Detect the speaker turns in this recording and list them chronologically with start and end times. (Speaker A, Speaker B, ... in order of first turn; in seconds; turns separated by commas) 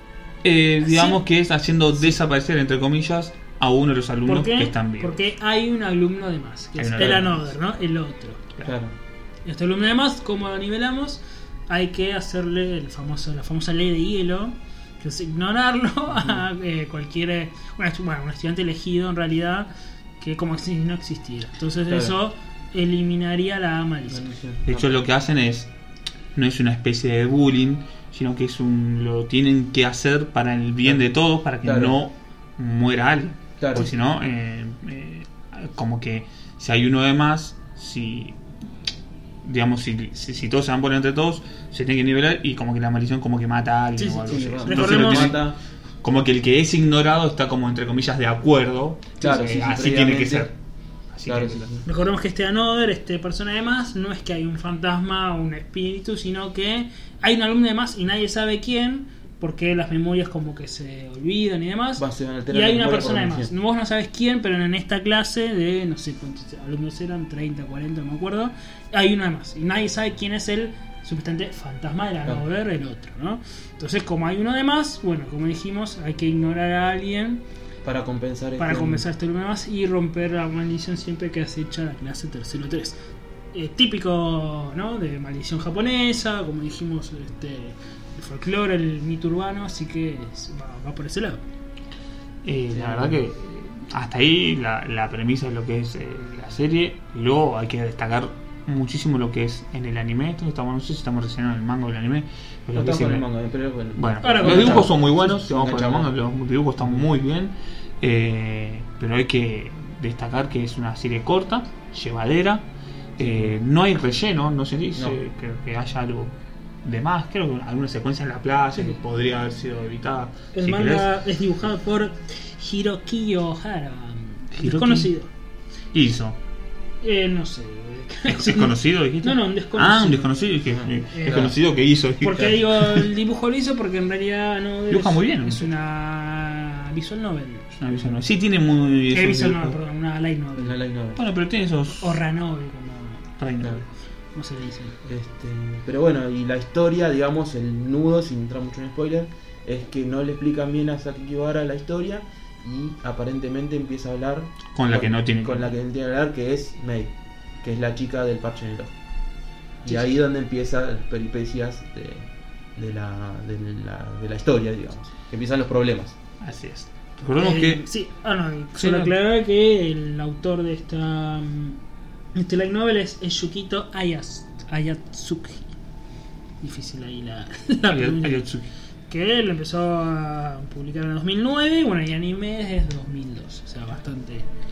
Speaker A: 0.4-5.2, Speaker B: 0.8-1.2, Speaker B: 4.3-8.4, Speaker A: 6.8-7.5, Speaker C: 8.6-8.9, Speaker B: 9.4-24.2, Speaker C: 16.1-16.4, Speaker C: 21.9-22.1, Speaker C: 24.1-25.0, Speaker A: 24.7-25.7, Speaker A: 26.4-38.4, Speaker C: 31.6-32.0, Speaker C: 33.6-33.9, Speaker A: 39.4-45.5, Speaker B: 44.0-45.4, Speaker C: 44.3-45.6, Speaker A: 46.0-50.5, Speaker C: 49.2-50.5, Speaker B: 49.3-49.5, Speaker A: 51.1-51.8, Speaker C: 51.3-51.9, Speaker B: 51.9-77.4, Speaker C: 62.0-63.5, Speaker C: 77.8-79.0, Speaker B: 78.6-83.0, Speaker B: 83.5-91.4, Speaker A: 92.4-103.3, Speaker C: 92.7-93.2, Speaker C: 102.7-106.1, Speaker A: 103.9-116.3, Speaker B: 104.2-105.1, Speaker C: 106.8-107.1, Speaker C: 113.2-113.5, Speaker A: 116.8-121.1, Speaker B: 120.5-125.3, Speaker A: 124.5-125.1, Speaker A: 125.9-126.4, Speaker B: 127.0-130.5, Speaker A: 128.3-133.1, Speaker C: 130.7-131.6, Speaker B: 131.1-131.6, Speaker B: 132.2-137.7, Speaker A: 134.9-135.7, Speaker A: 137.7-139.8, Speaker C: 137.9-138.2, Speaker B: 139.1-140.8, Speaker C: 140.6-141.2, Speaker A: 141.2-142.2, Speaker B: 142.0-143.2, Speaker A: 143.4-143.8, Speaker B: 144.3-145.0, Speaker C: 145.1-158.9, Speaker A: 154.7-155.7, Speaker C: 159.8-166.2, Speaker A: 166.4-167.8, Speaker B: 167.3-171.8, Speaker A: 168.8-169.1, Speaker B: 172.3-175.7, Speaker B: 176.6-178.5, Speaker A: 177.9-178.7, Speaker B: 179.1-184.5